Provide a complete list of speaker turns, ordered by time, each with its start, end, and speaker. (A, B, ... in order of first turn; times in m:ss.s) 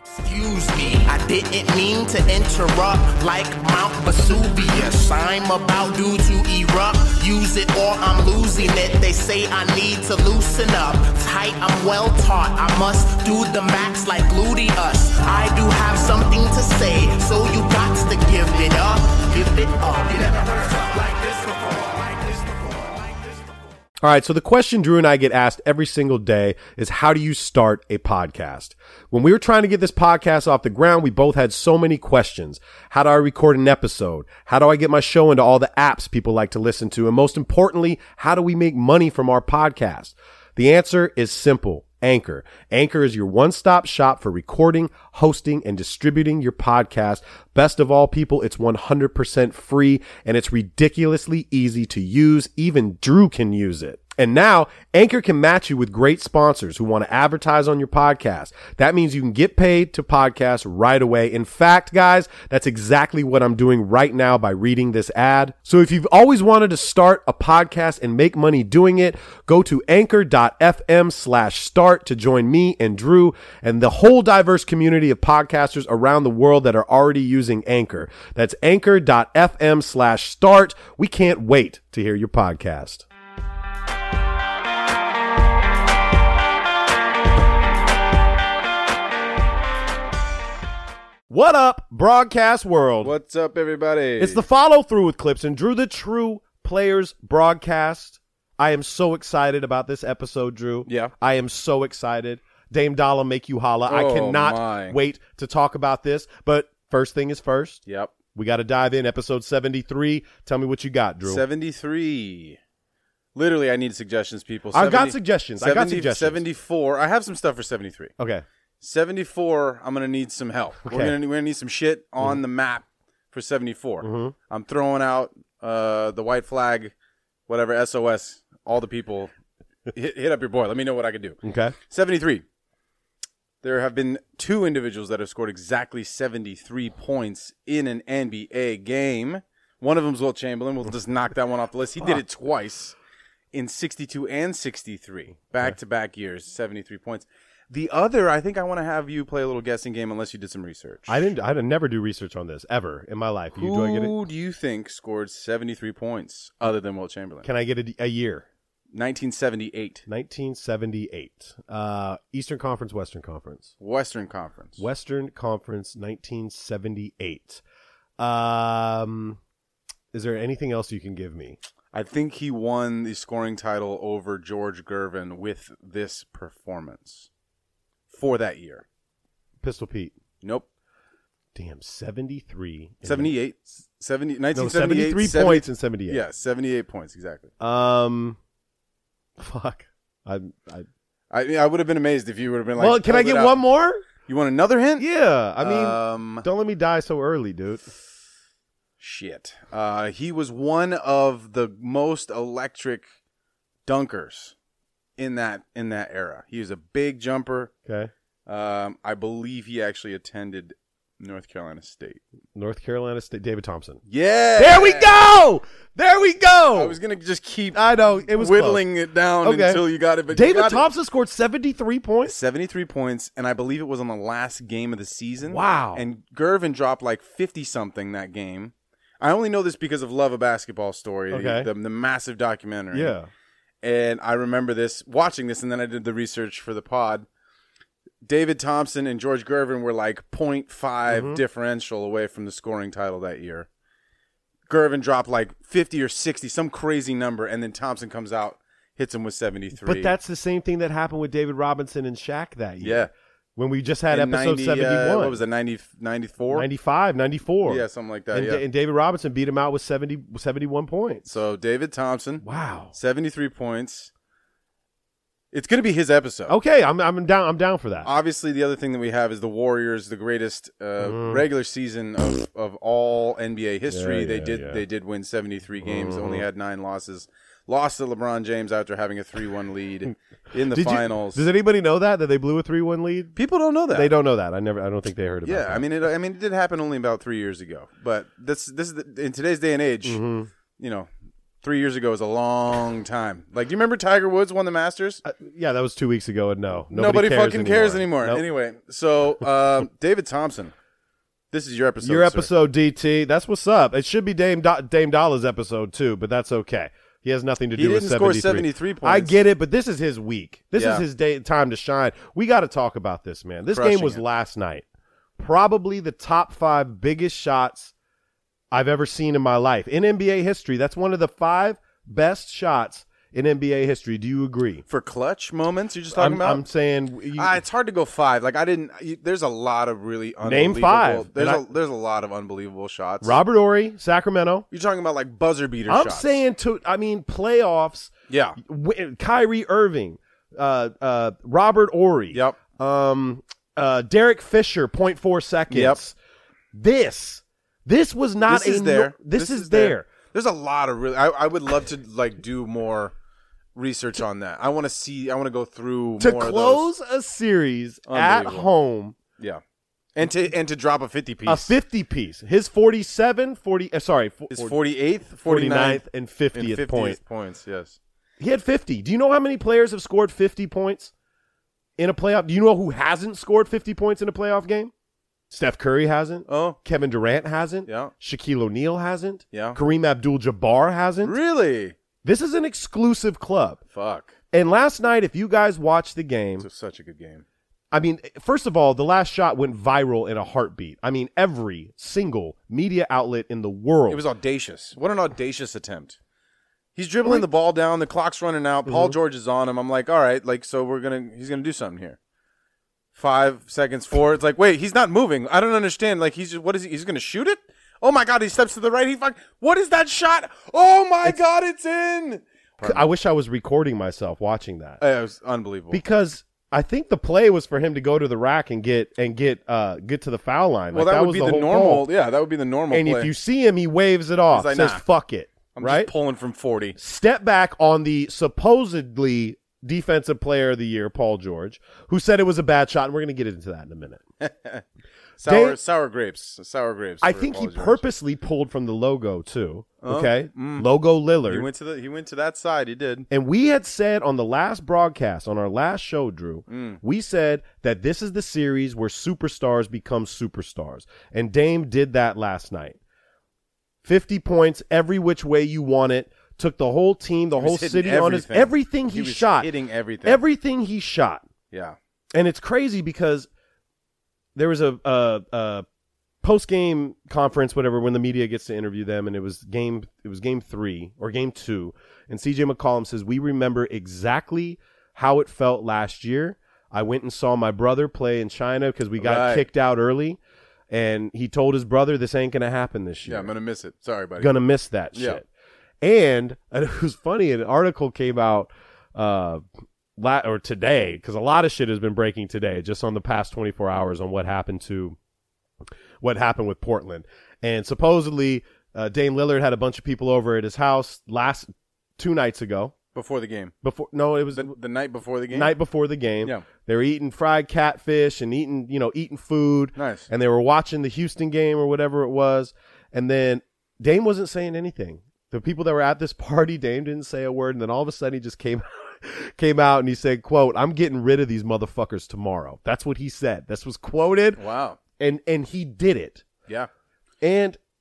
0:00.2-0:23.1 A
0:24.0-1:23.0 B
1:31.3-1:33.1 B
1:33.0-1:34.4 C
1:34.2-1:47.8 B
1:40.8-1:41.1 C
1:43.9-1:45.0 C
1:47.9-1:48.1 C
1:48.3-1:51.4 B
1:51.2-1:52.6 C
1:53.3-1:58.1 C
1:54.7-1:56.4 B
1:58.2-1:58.4 B
1:58.8-2:06.9 C
2:00.8-2:01.2 B
2:04.0-2:04.3 B
2:07.5-2:09.3 C
2:09.9-2:12.4 C
2:11.4-2:11.7 B
2:13.6-2:23.0 C
2:23.5-2:31.2 C
2:31.1-2:34.1 B
2:33.5-2:37.4 C
2:37.4-2:38.4 B
2:38.9-2:40.0 C
2:40.1-2:43.7 B
2:43.8-2:44.8 C
2:44.8-2:47.6 B
2:48.2-2:49.4 B
2:50.1-2:51.6 B
2:51.9-2:57.3 C
2:58.1-2:58.8 C
2:59.6-3:00.1 B
3:00.4-3:00.7 C
3:01.5-3:03.3 B
3:03.0-3:07.5 C
3:04.5-3:06.2 B
3:07.6-3:08.4 B
3:09.4-3:10.9 B
3:11.3-3:13.6 C
3:12.8-3:14.0 B
3:14.2-3:15.0 C
3:15.0-3:17.9 B
3:15.6-3:16.4 C
3:19.0-3:23.0 C
3:23.8-3:24.5 C
3:25.2-3:27.7 C
3:27.8-3:28.1 B
3:28.5-3:32.2 C
3:32.5-3:34.0 B
3:34.1-3:35.1 C
3:34.6-3:37.0 B
3:36.7-3:37.8 C
3:37.7-3:38.8 B
3:38.3-3:40.9 C
3:39.4-3:42.3 B
3:42.2-3:53.1 C
3:45.5-3:46.0 B
3:51.3-3:51.7 B
3:52.9-3:53.3 B
3:53.8-3:57.3 C
3:58.2-4:03.7 C
4:01.1-4:01.4 B
4:04.7-4:10.1 C
4:09.8-4:15.4 B
4:12.8-4:13.1 C
4:14.1-4:16.7 C
4:16.5-4:21.3 B
4:17.6-4:18.6 C
4:21.2-4:24.1 C
4:22.4-4:22.9 B
4:25.5-4:26.6 C
4:26.5-4:28.1 B
4:28.0-4:41.4 C
4:31.0-4:31.4 B
4:33.9-4:34.8 B
4:35.8-4:36.4 B
4:40.7-4:43.3 B
4:43.3-4:44.1 C
4:43.9-4:45.9 B
4:45.4-4:50.2 C
4:50.0-4:50.5 B
4:50.8-4:51.1 C
4:51.6-4:55.2 C
4:55.2-4:58.4 B
4:56.9-5:00.7 C
5:01.5-5:02.5 C
5:02.0-5:14.8 B
5:07.7-5:09.4 C
5:10.7-5:11.0 C
5:13.7-5:14.2 C
5:15.4-5:17.9 B
5:18.7-5:24.8 B
5:24.9-5:26.6 C
5:26.1-5:27.6 B
5:27.3-5:33.4 C
5:30.4-5:31.6 B
5:33.2-5:34.6 B
5:34.7-5:36.4 C
5:35.9-5:46.1 B
5:38.3-5:38.6 C
5:45.7-5:46.0 C
5:46.7-5:50.1 B
5:48.5-5:53.1 C
5:53.7-5:56.9 C
5:56.2-5:59.1 B
5:58.1-5:58.7 C
6:00.1-6:01.7 C
6:01.4-6:04.8 B
6:04.5-6:08.0 C
6:05.4-6:07.2 B
6:08.4-6:11.1 B
6:12.0-6:14.9 B
6:15.5-6:21.4 B
6:16.5-6:16.8 C
6:17.9-6:18.1 C
6:19.5-6:19.8 C
6:21.2-6:22.0 C
6:22.2-6:23.8 B
6:23.9-6:24.3 C
6:24.5-6:26.6 B
6:26.6-6:27.4 C
6:27.9-6:34.2 B
6:34.1-6:36.2 C
6:37.0-6:42.2 C
6:38.9-6:39.2 B
6:43.1-6:53.0 C
6:52.8-6:55.0 B
6:55.0-6:56.0 C
6:55.9-7:02.1 B
7:00.9-7:03.3 C
7:02.9-7:06.1 B
7:04.5-7:05.0 C
7:05.7-7:07.0 C
7:07.0-7:14.2 B
7:14.4-7:14.8 C
7:15.4-7:18.0 C
7:15.4-7:15.8 B
7:17.2-7:21.7 B
7:20.0-7:20.9 C
7:21.5-7:23.3 C
7:23.3-7:33.0 B
7:26.7-7:27.0 C
7:34.0-7:39.7 B
7:37.6-7:40.4 C
7:40.2-7:41.4 B
7:41.7-7:42.0 C
7:42.3-7:43.5 B
7:44.6-7:45.8 B
7:46.4-8:00.4 B
7:59.2-7:59.6 C
8:00.9-8:03.5 B
8:03.2-8:04.5 C
8:04.4-8:05.4 B
8:05.1-8:05.4 C
8:06.0-8:09.6 B
8:10.2-8:15.2 B
8:16.2-8:22.9 B
8:23.1-8:23.7 C
8:23.8-8:24.7 B
8:24.5-8:25.7 C
8:25.5-8:44.6 B
8:30.0-8:30.3 C
8:44.6-8:45.0 C
8:45.2-8:46.4 B
8:47.4-8:47.8 B